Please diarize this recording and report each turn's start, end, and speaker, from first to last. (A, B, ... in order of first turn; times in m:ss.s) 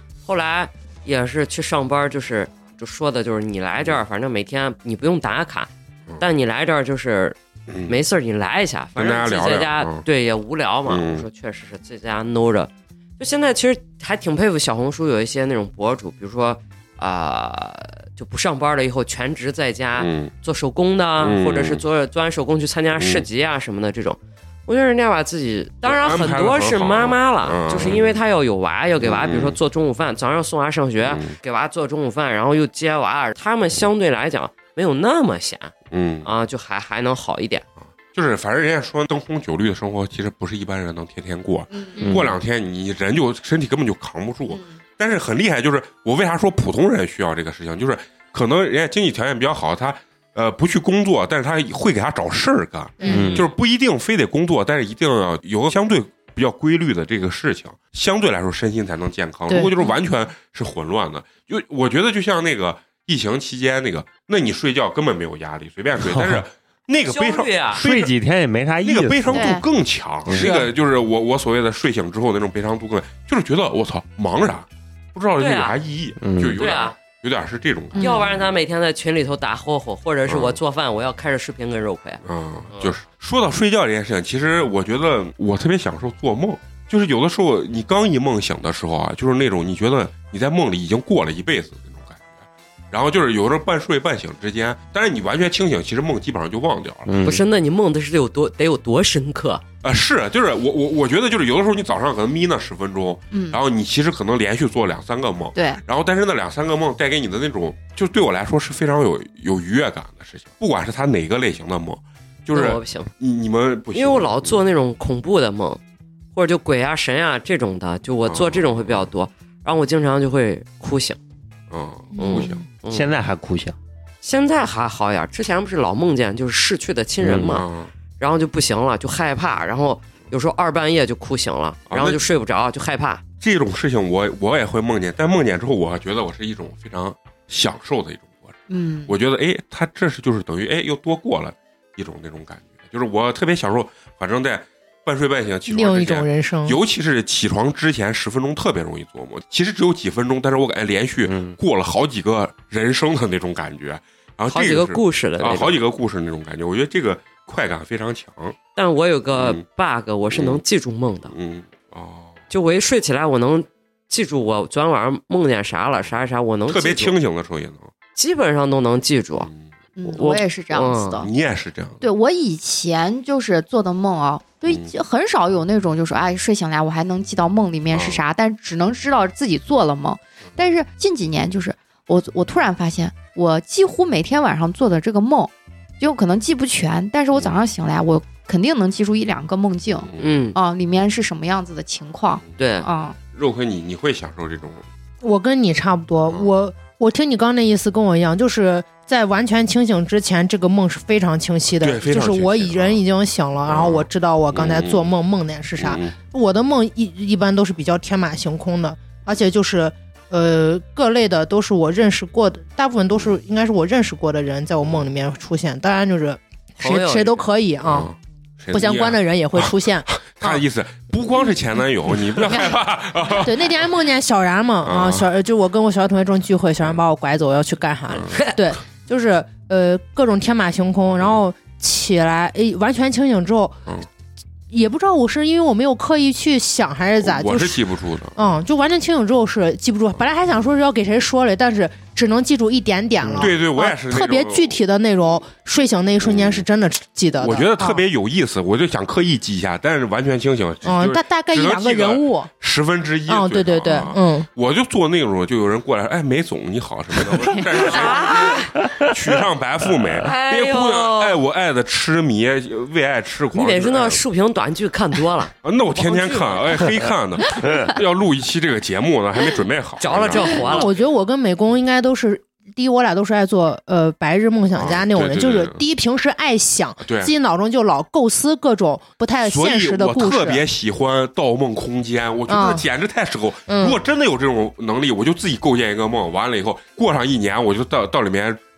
0:00.2-0:35.7 A
0:07.7-0:08.0 B
0:09.0-0:10.0 B
0:10.9-0:11.2 B
0:20.0-0:20.3 B
0:21.2-0:21.8 B
0:23.0-0:23.2 B
0:25.8-0:28.1 B
0:29.0-0:29.6 B
0:31.0-0:31.4 B
0:35.9-0:36.3 B
0:36.2-0:37.6 A
0:37.8-1:08.1 B
0:41.7-0:42.1 C
0:42.0-0:42.4 D
0:53.0-0:53.4 E
0:53.1-0:53.5 D
0:53.1-0:53.4 A
0:59.5-0:59.7 E
1:06.0-1:06.4 D
1:07.1-1:07.8 A
1:07.8-1:09.6 D
1:08.8-1:18.0 B
1:09.3-1:09.6 C
1:10.3-1:10.6 D
1:10.4-1:10.6 E
1:15.4-1:15.8 A
1:16.2-1:16.6 D
1:16.6-1:17.0 A
1:17.9-1:18.4 C
1:18.0-1:22.2 A
1:20.3-1:20.6 B
1:22.2-1:37.1 B
1:37.1-1:37.4 D
1:37.2-1:39.6 A
1:39.8-1:54.6 B
1:43.3-1:43.6 C
1:45.6-1:45.8 C
1:52.5-1:53.1 A
1:53.9-1:55.8 A
1:56.3-2:01.2 A
1:58.3-1:59.1 B
2:01.7-2:02.6 B
2:02.2-2:03.1 A
2:02.9-2:03.8 D
2:04.2-2:07.7 A
2:07.2-2:07.6 D
2:07.3-2:07.9 B
2:08.2-2:13.2 A
2:11.9-2:12.2 B
2:13.4-2:38.6 B
2:18.7-2:19.2 C
2:25.7-2:26.8 E
2:31.3-2:31.6 D
2:34.5-2:35.8 A
2:38.8-2:41.3 A
2:39.4-2:39.6 B
2:40.3-2:40.6 B
2:41.3-2:42.4 B
2:42.5-2:47.2 A
2:46.7-2:47.9 B
2:48.2-2:49.5 A
2:50.0-2:51.3 C
2:50.1-2:51.3 A
2:51.2-2:52.0 B
2:52.0-3:13.2 C
2:54.7-2:54.9 B
2:57.9-2:58.2 B
3:10.1-3:10.4 B
3:10.2-3:10.6 A
3:12.6-3:12.9 A
3:13.3-3:14.8 B
3:15.2-3:38.1 E
3:21.8-3:23.0 B
3:23.7-3:25.1 B
3:25.8-3:26.2 B
3:36.8-3:37.5 A
3:37.8-3:43.9 B
3:38.7-3:40.6 E
3:43.4-3:53.8 E
3:44.8-3:45.3 B
3:48.1-3:48.4 B
3:54.7-3:57.8 E
3:57.2-3:58.4 B
3:58.4-4:08.0 E
4:03.2-4:04.8 B
4:06.2-4:06.7 B
4:07.4-4:24.2 B
4:10.8-4:12.5 E
4:13.3-4:14.5 E
4:17.7-4:18.8 A
4:20.2-4:21.4 A
4:23.5-4:26.8 A
4:25.6-4:30.9 B
4:30.0-4:30.9 A
4:30.5-4:40.6 E
4:34.7-4:35.8 B
4:37.0-4:37.3 B
4:39.4-4:48.6 B
4:42.5-4:42.8 E
4:43.7-4:44.0 E